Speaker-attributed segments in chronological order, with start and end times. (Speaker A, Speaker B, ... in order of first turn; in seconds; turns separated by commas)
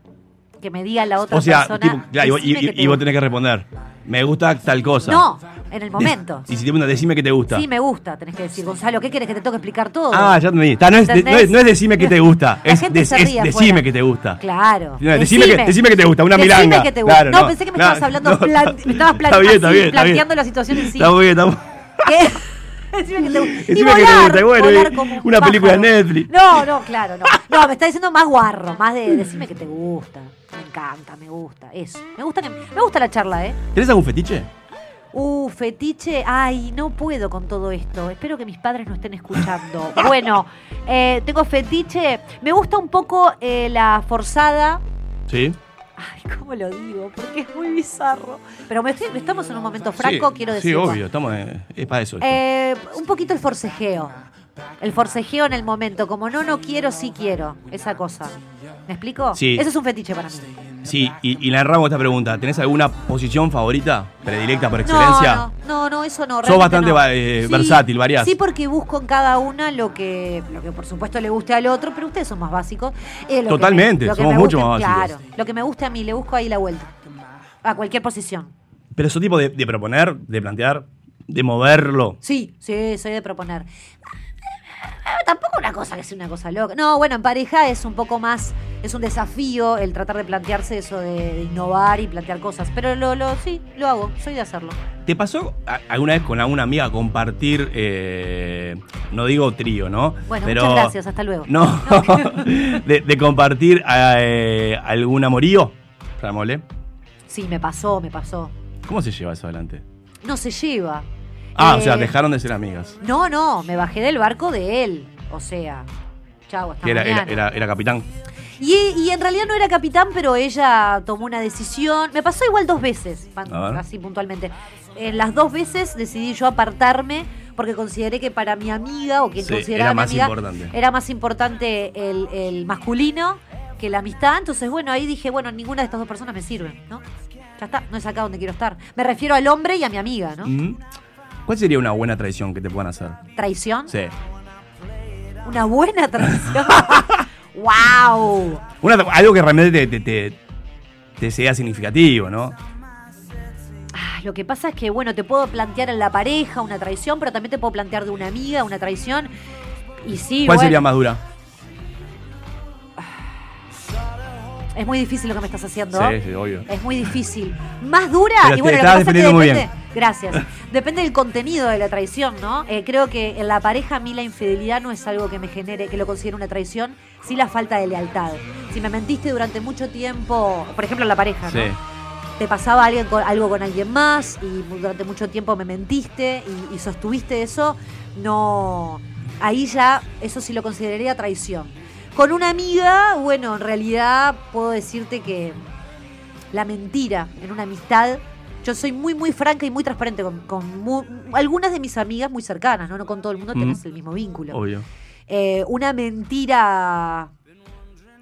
Speaker A: 0.6-3.0, Speaker B: 1.3-5.2, Speaker A: 5.0-6.5, Speaker B: 6.0-7.6, Speaker A: 7.5-10.4, Speaker B: 10.1-14.4, Speaker A: 11.0-13.8, Speaker A: 14.4-15.8, Speaker B: 15.0-22.0, Speaker A: 16.3-21.1, Speaker A: 22.1-33.6, Speaker B: 23.2-26.3, Speaker B: 33.7-34.5, Speaker A: 35.1-44.8, Speaker B: 45.3-45.6, Speaker A: 46.0-51.0, Speaker B: 50.0-52.4, Speaker A: 52.2-54.1, Speaker A: 54.8-60.5, Speaker B: 59.4-59.6, Speaker B: 60.8-65.5, Speaker A: 64.8-76.9, Speaker B: 66.4-68.3, Speaker B: 73.5-75.1, Speaker A: 77.6-78.5, Speaker B: 78.9-82.2, Speaker A: 82.2-83.7, Speaker A: 84.8-94.8, Speaker B: 95.0-100.9, Speaker A: 100.3-102.4, Speaker B: 101.5-106.6, Speaker A: 107.3-108.5, Speaker B: 108.9-109.8, Speaker A: 110.2-112.1, Speaker B: 111.5-113.0, Speaker A: 113.0-115.9, Speaker A: 116.5-117.4, Speaker B: 116.8-118.0, Speaker A: 118.6-137.0, Speaker B: 123.5-123.8, Speaker B: 129.4-130.7, Speaker A: 137.6-140.5, Speaker B: 140.4-140.8, Speaker B: 141.5-143.2, Speaker A: 143.4-143.9, Speaker A: 145.4-148.6, Speaker B: 146.8-147.1, Speaker B: 148.8-150.4, Speaker B: 151.2-152.6, Speaker A: 153.9-159.3, Speaker A: 160.0-160.8, Speaker B: 160.4-161.2, Speaker A: 164.7-181.7, Speaker B: 165.9-166.7, Speaker B: 168.4-169.7, Speaker B: 181.5-181.8, Speaker A: 182.4-195.6, Speaker A: 196.5-204.6, Speaker B: 204.5-204.8, Speaker A: 205.3-207.3